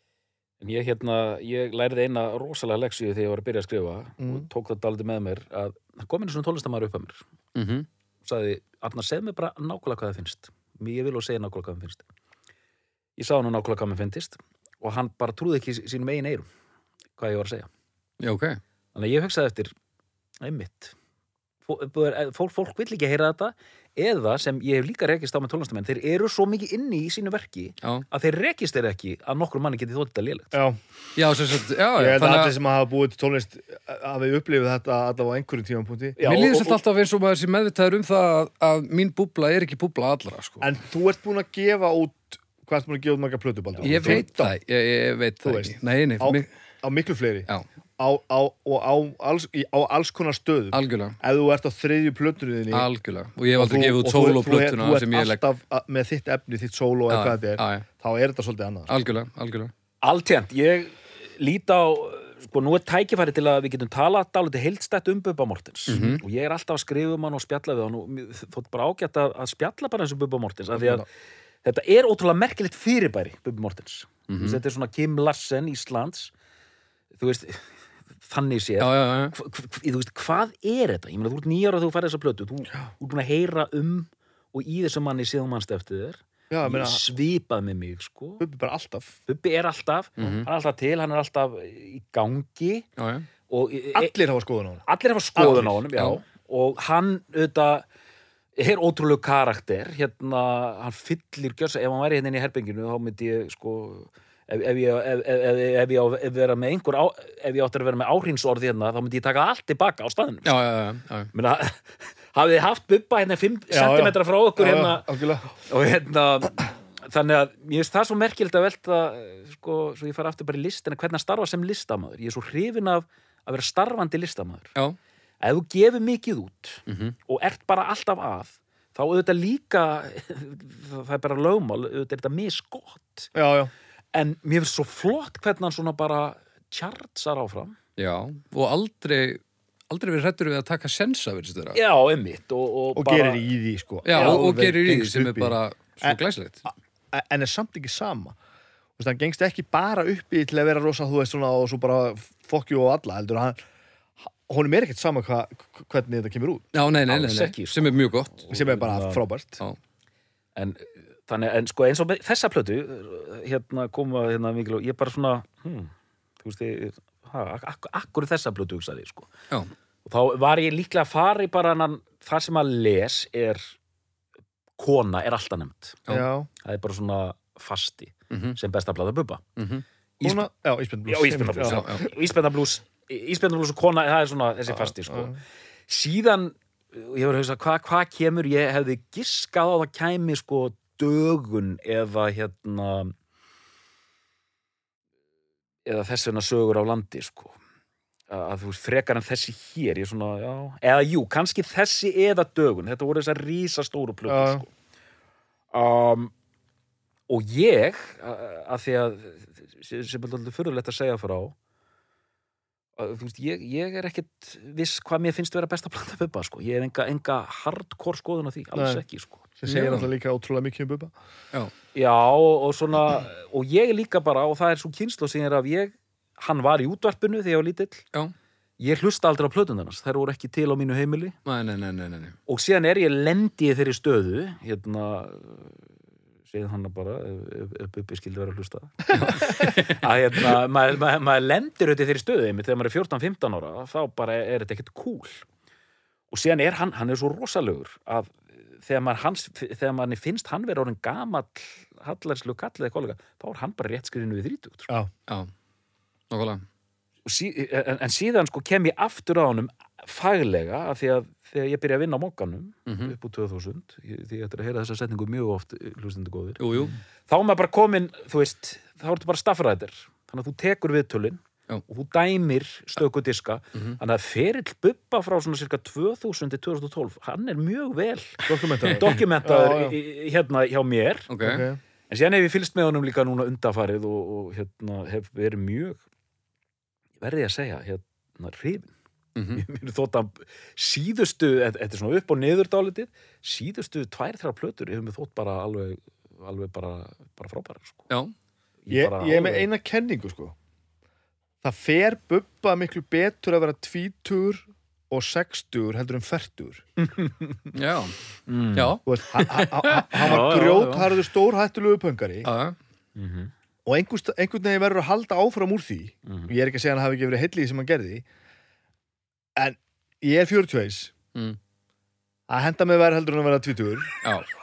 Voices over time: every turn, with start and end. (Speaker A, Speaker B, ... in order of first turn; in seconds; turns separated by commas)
Speaker A: 0.6-7.2, Speaker B: 4.2-4.5, Speaker C: 7.5-7.9, Speaker A: 8.2-12.1, Speaker A: 13.2-16.5, Speaker A: 17.2-17.7, Speaker C: 18.2-18.6, Speaker A: 18.9-19.7, Speaker A: 20.4-20.9, Speaker A: 21.6-30.6, Speaker B: 30.5-30.8, Speaker C: 31.1-32.5, Speaker B: 31.9-36.2, Speaker A: 36.2-36.8, Speaker C: 36.2-40.7, Speaker B: 40.6-44.5, Speaker C: 43.8-46.5, Speaker B: 45.4-47.5, Speaker B: 48.0-52.9, Speaker C: 50.7-51.2, Speaker C: 52.7-55.4, Speaker B: 53.5-58.9, Speaker C: 57.1-57.8, Speaker C: 58.9-59.7, Speaker A: 60.0-71.0, Speaker C: 65.9-66.2, Speaker A: 71.6-76.3, Speaker C: 74.3-74.6, Speaker A: 77.1-88.4, Speaker C: 78.8-79.3, Speaker B: 86.5-87.0, Speaker B: 88.4-89.2, Speaker A: 89.2-92.9, Speaker C: 90.2-90.5, Speaker C: 93.0-93.3, Speaker A: 93.5-94.1, Speaker B: 93.9-94.8, Speaker A: 94.8-97.8, Speaker B: 95.3-95.8, Speaker C: 95.9-96.2, Speaker A: 98.6-110.7, Speaker C: 110.4-111.3, Speaker A: 111.3-124.7, Speaker B: 113.7-115.5, Speaker A: 125.4-133.3, Speaker C: 126.9-127.2, Speaker B: 133.3-133.7, Speaker A: 134.1-137.8, Speaker C: 138.0-141.8, Speaker A: 141.7-143.4, Speaker B: 142.9-146.2, Speaker C: 144.0-146.6, Speaker A: 144.1-144.4, Speaker B: 147.1-148.3, Speaker B: 149.0-153.6, Speaker B: 154.2-156.7, Speaker C: 156.7-158.4, Speaker A: 157.1-159.2, Speaker B: 158.5-159.6, Speaker A: 160.6-169.3, Speaker A: 170.0-173.7, Speaker A: 174.8-176.0, Speaker B: 176.1-176.5, Speaker A: 176.6-179.4, Speaker C: 178.3-178.6, Speaker C: 179.6-179.8, Speaker A: 180.2-180.5, Speaker B: 180.2-182.1, Speaker A: 181.1-185.4, Speaker C: 181.7-182.0, Speaker B: 184.7-185.4, Speaker A: 185.9-193.1, Speaker A: 195.8-197.6, Speaker A: 198.3-204.7, Speaker B: 204.3-204.6, Speaker A: 205.7-206.3, Speaker A: 207.3-211.5, Speaker A: 213.0-219.4, Speaker B: 218.7-219.0, Speaker B: 219.6-221.1, Speaker C: 219.6-220.1, Speaker A: 221.9-228.0, Speaker A: 228.8-231.3, Speaker C: 231.4-232.3, Speaker A: 232.5-235.8, Speaker A: 236.5-245.4, Speaker C: 239.1-240.6, Speaker A: 246.3-254.9, Speaker C: 256.3-256.6, Speaker A: 257.2-278.4, Speaker C: 262.9-263.1, Speaker C: 266.6-266.9, Speaker B: 278.4-279.9, Speaker C: 278.9-279.1, Speaker A: 278.9-281.3, Speaker C: 281.3-281.6, Speaker B: 281.4-281.8, Speaker A: 282.1-286.0, Speaker A: 287.2-288.9, Speaker C: 289.4-289.6, Speaker A: 289.5-298.1, Speaker A: 298.8-299.7, Speaker B: 298.9-300.5, Speaker B: 301.6-306.8, Speaker A: 307.0-307.6, Speaker C: 307.7-308.1, Speaker A: 308.5-309.0, Speaker C: 308.7-310.4, Speaker B: 309.1-312.5, Speaker A: 310.2-311.1, Speaker C: 312.4-312.8, Speaker A: 313.1-313.5, Speaker B: 313.9-318.2, Speaker A: 316.2-316.5, Speaker B: 319.6-321.1, Speaker B: 322.5-324.2